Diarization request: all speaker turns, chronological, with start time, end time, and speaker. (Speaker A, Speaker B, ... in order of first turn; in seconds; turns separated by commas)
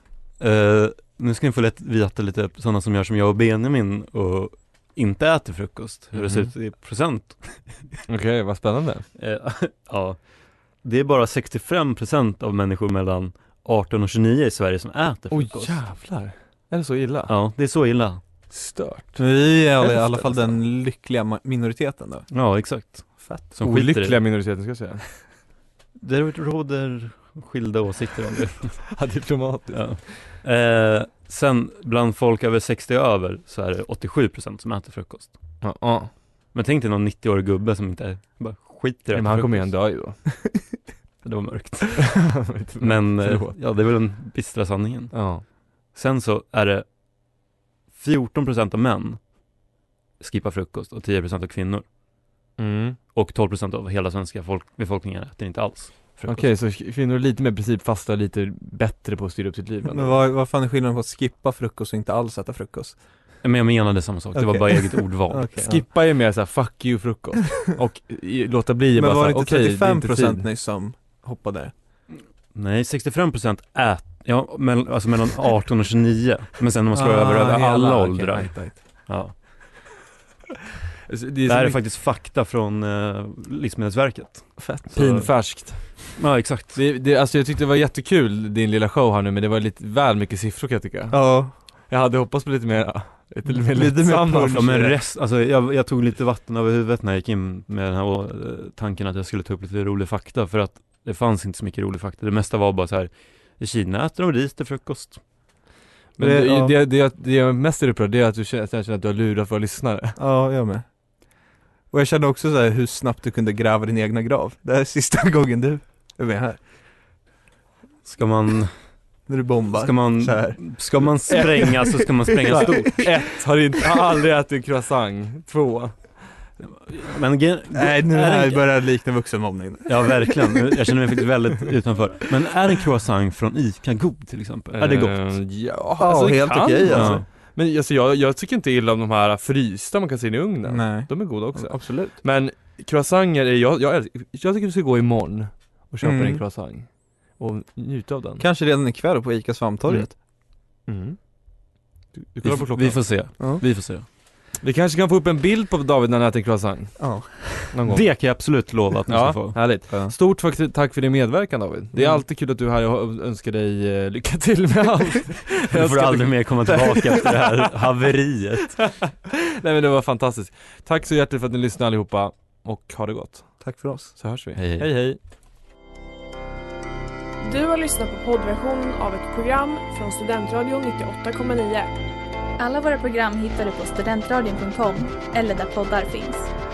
Speaker A: 0.4-8.0, Speaker B: 6.1-6.5, Speaker B: 8.1-9.1, Speaker A: 9.2-10.2, Speaker A: 10.8-15.8, Speaker B: 15.3-17.3, Speaker A: 17.3-18.2, Speaker B: 18.5-19.2, Speaker C: 19.1-22.3, Speaker B: 19.8-20.5, Speaker A: 22.3-24.2, Speaker B: 23.5-25.0, Speaker A: 26.0-28.9, Speaker B: 28.9-29.9, Speaker A: 29.7-35.5, Speaker B: 35.6-36.1, Speaker A: 36.5-39.8, Speaker B: 39.1-40.2, Speaker A: 41.2-46.8, Speaker B: 42.2-43.5, Speaker B: 45.1-45.4, Speaker A: 47.9-49.2, Speaker A: 50.2-51.8, Speaker B: 52.6-53.0, Speaker A: 53.1-56.5, Speaker B: 56.3-60.2, Speaker C: 59.9-63.0, Speaker A: 63.4-65.6, Speaker C: 64.3-65.8, Speaker B: 65.6-70.4, Speaker C: 68.9-71.7, Speaker A: 72.5-79.3, Speaker C: 76.9-77.8, Speaker B: 77.4-78.8, Speaker B: 81.1-81.8, Speaker A: 81.4-86.8, Speaker C: 84.6-85.0, Speaker B: 84.9-86.1, Speaker B: 86.7-94.7, Speaker C: 91.1-91.5, Speaker C: 93.5-95.0, Speaker A: 94.5-105.2, Speaker C: 106.2-106.8, Speaker B: 106.2-110.2, Speaker C: 110.2-110.8, Speaker C: 111.9-116.6, Speaker A: 118.0-118.7, Speaker C: 119.3-123.0, Speaker A: 119.7-123.1, Speaker B: 121.3-126.2, Speaker A: 126.8-128.7, Speaker C: 127.7-130.6, Speaker A: 129.9-135.3, Speaker B: 134.7-148.4, Speaker C: 136.0-137.2, Speaker A: 136.9-137.2, Speaker C: 140.7-142.2, Speaker C: 146.0-146.4, Speaker C: 148.4-150.1, Speaker B: 149.9-151.2, Speaker B: 152.1-153.1, Speaker A: 152.4-154.0, Speaker B: 154.6-158.1, Speaker C: 157.0-157.7, Speaker A: 157.9-159.6, Speaker B: 159.1-167.8, Speaker C: 159.9-160.2, Speaker C: 161.9-162.2, Speaker A: 165.7-168.8, Speaker B: 168.8-173.6, Speaker C: 173.6-174.2, Speaker B: 174.1-175.2, Speaker A: 174.6-174.9, Speaker D: 177.4-181.9, Speaker E: 182.6-186.5